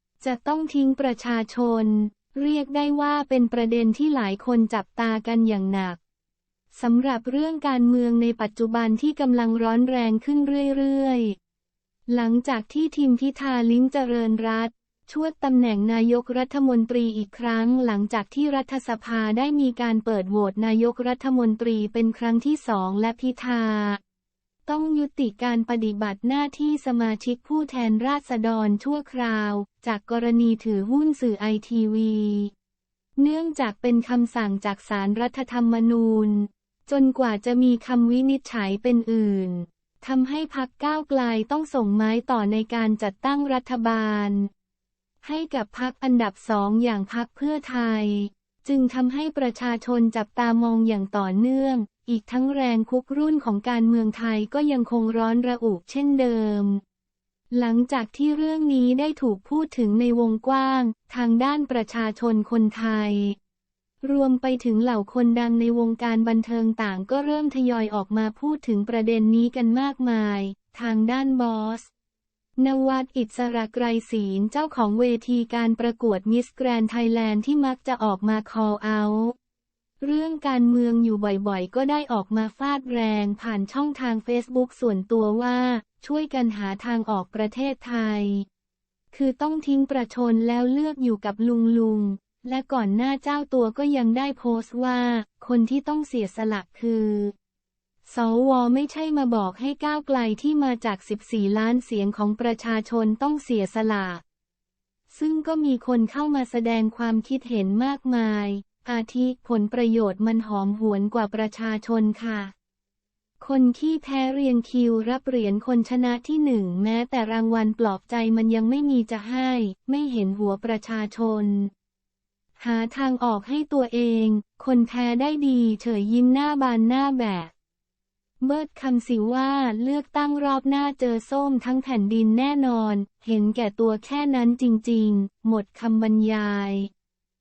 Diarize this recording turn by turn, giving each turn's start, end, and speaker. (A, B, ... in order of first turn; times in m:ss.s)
0:00.2-0:06.0 A
0:06.7-0:11.4 A
0:12.1-0:24.0 A
0:24.6-0:32.5 A
0:33.2-0:44.5 A
0:45.2-0:56.8 A
0:57.5-1:03.4 A
1:04.0-1:11.9 A
1:12.6-1:19.3 A
1:20.0-1:28.4 A
1:29.1-1:37.3 A
1:38.0-1:44.2 A
1:45.1-1:52.5 A
1:53.4-2:01.7 A
2:02.6-2:07.5 A
2:08.4-2:16.9 A